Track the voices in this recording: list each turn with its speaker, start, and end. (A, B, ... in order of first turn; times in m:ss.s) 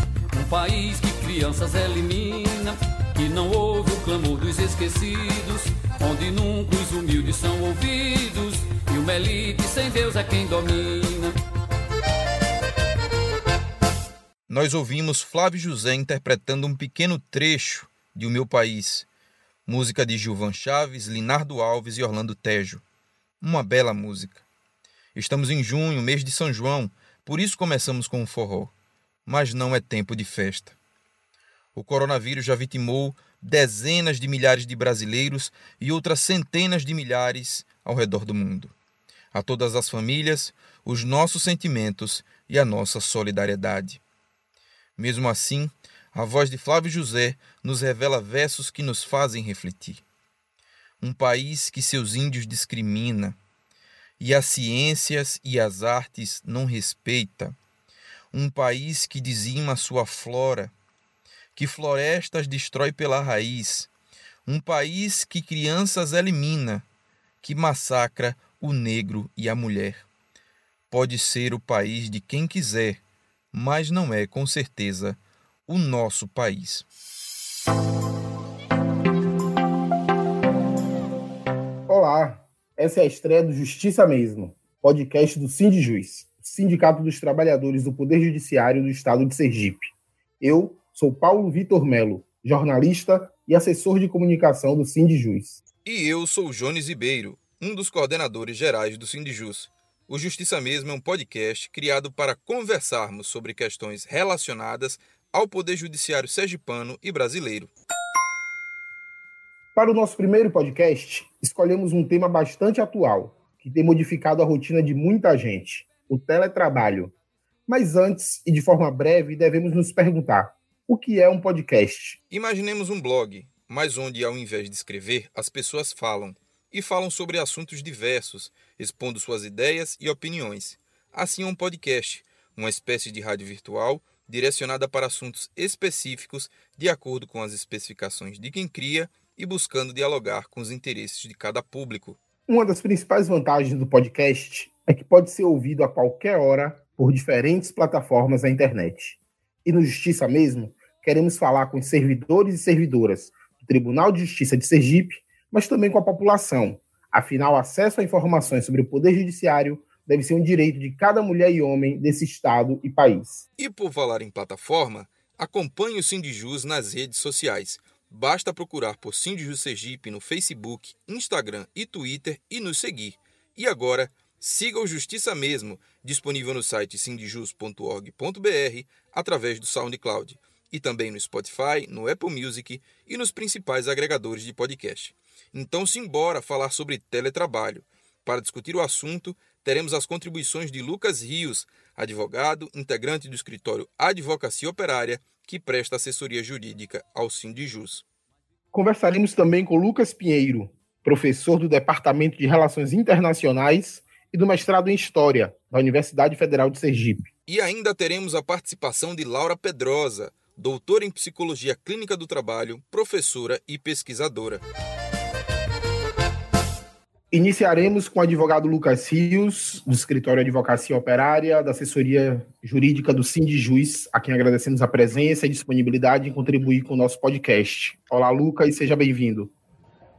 0:00.3-0:11.4 A
0:14.5-0:19.0 B
0:19.6-0:22.8 B
0:23.4-0:24.4 B
0:25.1-0:28.7 B
0:29.3-0:30.7 B
0:31.8-0:38.7 B
0:39.3-0:44.0 B
0:45.0-0:50.0 B
0:51.0-0:53.4 B
0:54.2-0:57.6 B
0:58.3-1:00.7 B
1:01.6-1:03.9 B
1:04.5-1:06.8 B
1:07.4-1:10.0 B
1:10.9-1:13.0 B
1:13.5-1:16.9 B
1:21.9-1:35.6 C
1:35.8-1:47.7 B
1:49.8-1:57.1 C
1:57.7-2:02.2 C
2:02.3-2:22.2 B
2:22.5-2:43.4 C
2:43.6-3:18.0 B
3:18.7-3:27.3 C
3:27.5-3:34.6 B
3:37.3-3:49.5 C